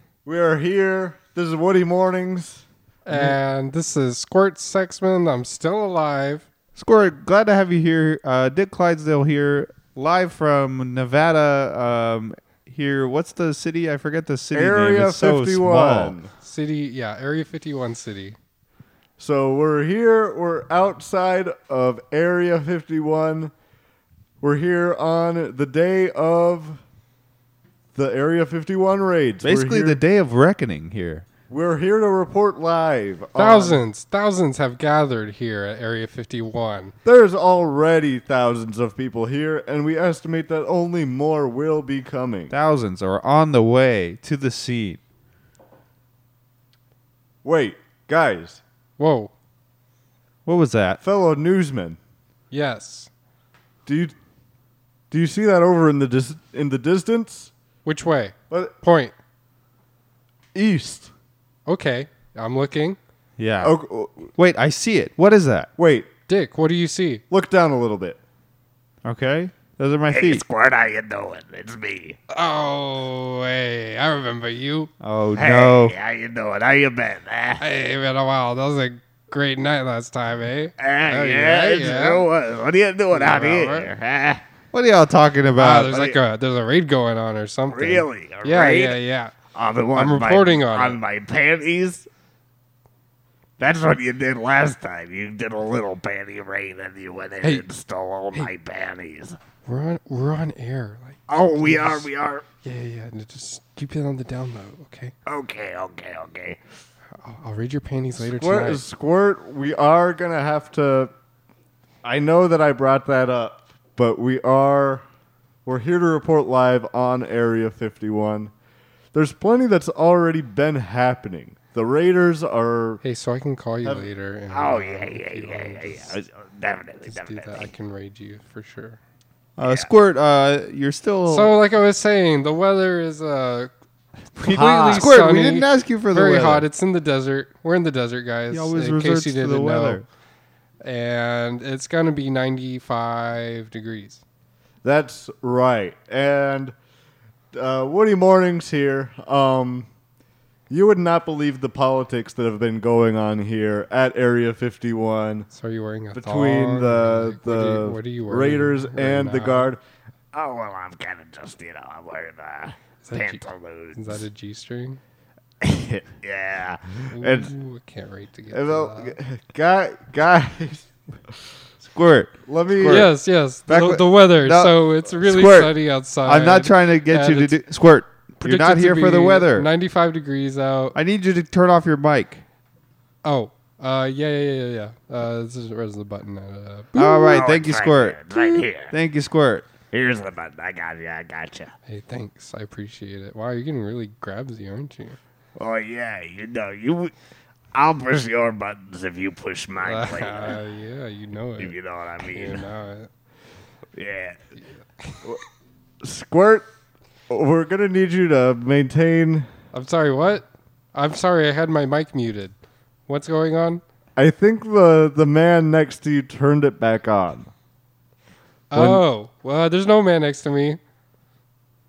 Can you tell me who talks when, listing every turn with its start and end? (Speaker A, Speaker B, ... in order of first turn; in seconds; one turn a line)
Speaker A: 0.2-2.6
Speaker B: 3.0-6.5
Speaker C: 6.8-16.1
Speaker A: 14.5-16.3
Speaker B: 16.4-18.4
Speaker A: 19.2-23.5
Speaker A: 24.4-26.8
Speaker A: 27.9-30.0
Speaker C: 29.4-31.2
Speaker A: 31.5-33.8
Speaker B: 33.4-36.9
Speaker A: 37.0-42.5
Speaker C: 42.5-45.0
Speaker A: 47.4-48.6
Speaker B: 49.0-49.3
Speaker C: 50.5-51.0
Speaker A: 51.0-52.0
Speaker B: 52.5-53.1
Speaker A: 53.9-54.1
Speaker A: 55.1-57.5
Speaker B: 57.8-59.1
Speaker A: 58.5-58.7
Speaker A: 60.5-61.1
Speaker B: 61.6-63.0
Speaker C: 63.4-63.7
Speaker A: 63.6-64.3
Speaker C: 64.4-65.7
Speaker A: 65.8-66.1
Speaker B: 66.3-67.2
Speaker A: 67.3-68.2
Speaker C: 69.0-70.4
Speaker D: 70.1-72.2
Speaker B: 72.3-74.9
Speaker C: 75.0-75.9
Speaker D: 75.3-77.6
Speaker B: 77.6-82.3
Speaker D: 80.8-84.4
Speaker B: 83.1-83.9
Speaker C: 84.7-86.2
Speaker B: 85.6-89.3
Speaker D: 87.7-89.0
Speaker D: 89.5-92.1
Speaker B: 89.9-91.0
Speaker D: 93.6-99.4
Speaker B: 97.4-97.7
Speaker B: 99.6-102.1
Speaker D: 101.3-102.4
Speaker B: 102.6-105.1
Speaker D: 105.2-106.6
Speaker B: 107.2-108.8
Speaker A: 108.2-111.1
Speaker A: 112.0-115.0
Speaker A: 115.6-118.5
Speaker A: 119.1-123.0
Speaker B: 123.0-126.1
Speaker D: 124.5-127.7
Speaker B: 127.0-129.0
Speaker C: 129.6-131.6
Speaker B: 131.3-133.7
Speaker B: 134.4-140.0
Speaker A: 134.4-135.1
Speaker C: 134.9-136.7
Speaker C: 138.5-140.0
Speaker B: 140.8-144.2
Speaker A: 144.8-146.7
Speaker A: 147.5-149.9
Speaker A: 150.7-155.5
Speaker B: 155.5-159.7
Speaker A: 156.1-159.8
Speaker D: 160.3-164.2
Speaker B: 163.0-165.0
Speaker A: 165.6-166.1
Speaker D: 166.2-166.8
Speaker B: 167.1-169.2
Speaker A: 167.1-167.5
Speaker A: 168.5-170.9
Speaker C: 171.8-173.1
Speaker A: 172.5-173.1
Speaker B: 172.8-177.6
Speaker C: 173.7-179.7
Speaker B: 178.4-180.9
Speaker C: 180.9-182.4
Speaker B: 183.2-187.4
Speaker C: 186.9-189.6
Speaker D: 187.3-188.9
Speaker D: 189.9-191.7
Speaker B: 191.9-195.2
Speaker D: 195.6-197.1
Speaker D: 197.7-200.6
Speaker B: 199.8-203.1
Speaker D: 201.6-202.6
Speaker D: 203.9-204.4
Speaker A: 206.0-206.7
Speaker A: 207.3-209.5
Speaker B: 209.7-212.6
Speaker B: 213.1-213.8
Speaker A: 214.2-217.5
Speaker B: 218.7-220.8
Speaker A: 218.7-219.0